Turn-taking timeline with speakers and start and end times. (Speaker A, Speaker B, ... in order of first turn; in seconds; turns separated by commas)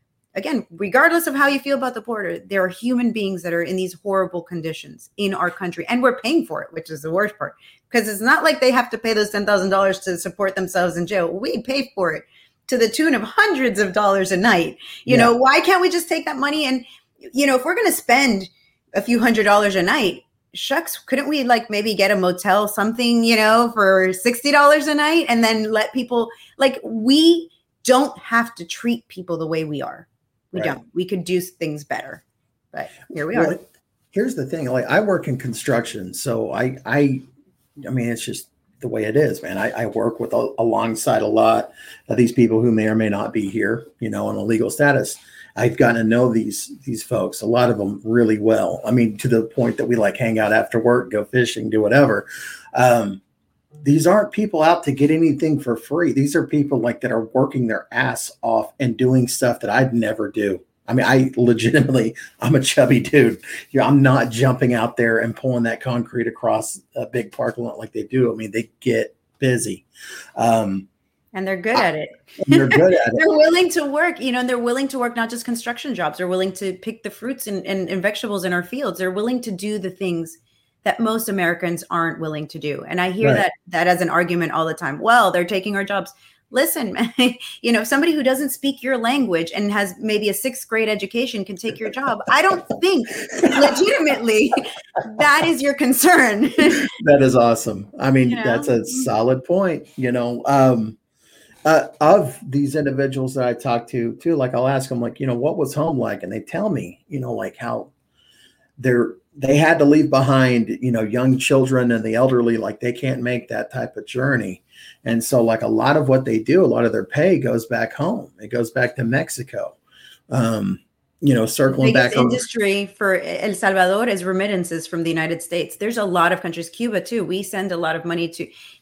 Speaker A: 0.3-33.5, Speaker B: 15.1-15.3, Speaker B: 33.3-37.2, Speaker B: 37.8-53.2, Speaker B: 53.8-69.8, Speaker B: 70.4-70.9, Speaker A: 71.3-96.9, Speaker B: 72.4-73.3, Speaker B: 93.4-93.7, Speaker B: 96.8-101.0, Speaker A: 98.2-99.1, Speaker B: 101.6-107.9, Speaker B: 108.8-119.8, Speaker B: 120.3-122.5, Speaker A: 121.7-128.5